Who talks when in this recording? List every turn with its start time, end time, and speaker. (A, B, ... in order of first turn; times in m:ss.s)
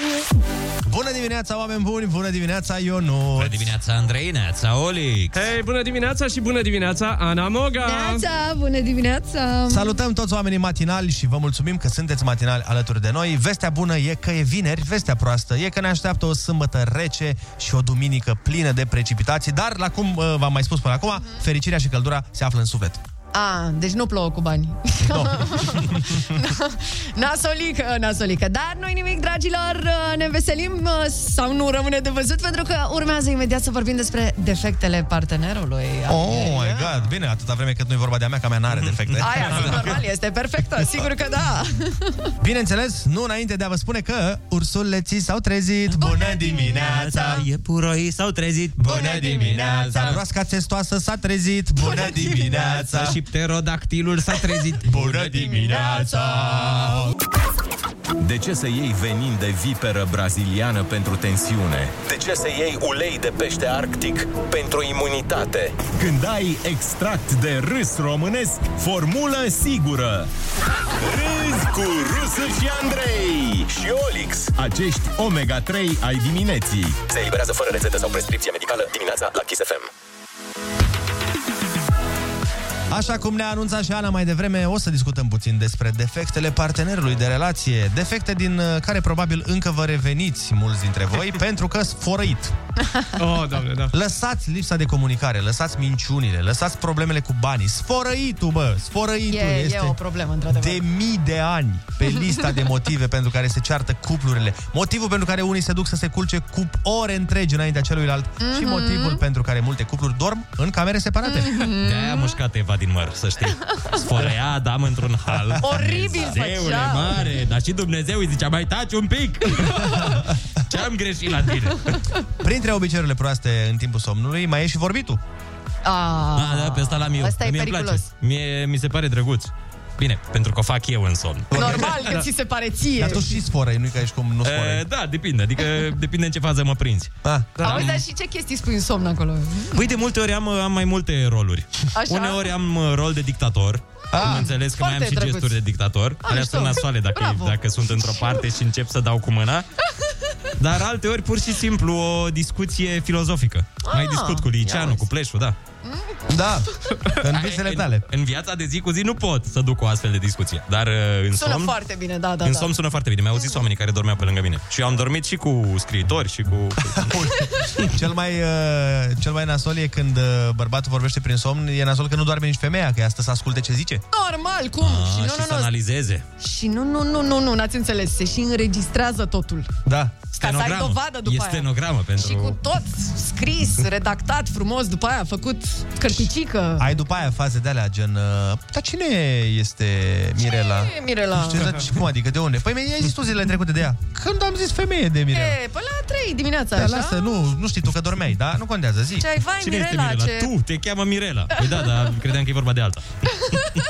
0:00.9-0:03.7 A
0:03.4-0:05.5 B
0:05.3-0:08.2 C
0:07.8-0:10.0 D
0:09.7-0:23.0 A
0:23.3-0:37.1 D
0:25.1-0:26.4 A
0:36.1-0:39.9 A
0:38.7-0:40.0 B
0:39.2-0:42.3 D
0:42.4-0:47.4 A
0:46.0-0:47.2 D
0:46.7-0:50.2 B
0:48.8-0:53.2 A
0:48.9-0:50.2 D
0:51.8-0:52.7 D
0:52.6-0:55.9 B
0:54.8-0:57.0 A
0:55.4-0:57.0 D
0:58.2-1:10.3 E
1:11.0-1:19.9 E
1:22.9-1:32.6 A
1:33.2-1:33.9 C
1:33.9-1:40.0 A
1:39.3-1:40.8 D
1:40.5-1:51.6 A
1:48.4-1:49.2 D
1:51.2-1:52.4 D
1:51.8-2:00.2 B
1:55.6-1:57.3 D
2:00.7-2:02.0 B
2:02.4-2:05.2 A
2:05.8-2:08.1 D
2:06.4-2:11.9 B
2:11.5-2:11.9 A
2:11.5-2:13.4 D
2:13.0-2:14.8 A
2:14.4-2:18.0 B
2:17.2-2:17.7 A
2:17.6-2:20.0 D
2:19.7-2:29.7 B
2:22.0-2:22.5 D
2:24.1-2:24.5 A
2:24.1-2:25.6 D
2:26.2-2:28.4 D
2:30.6-2:35.6 B
2:33.8-2:35.1 D
2:35.8-2:36.3 D
2:36.3-2:38.0 A
2:37.3-2:41.8 B
2:41.4-2:42.7 D
2:42.4-2:47.2 B
2:43.3-2:43.6 D
2:46.9-2:54.0 A
2:54.1-2:55.7 D
2:54.8-2:56.2 B
2:56.4-2:59.7 D
2:59.9-3:00.2 A
3:00.4-3:06.9 D
3:00.4-3:02.6 B
3:06.8-3:15.6 A
3:10.4-3:11.8 D
3:15.3-3:17.4 D
3:16.8-3:19.3 A
3:19.2-3:20.5 D
3:19.6-3:23.4 B
3:21.6-3:22.1 D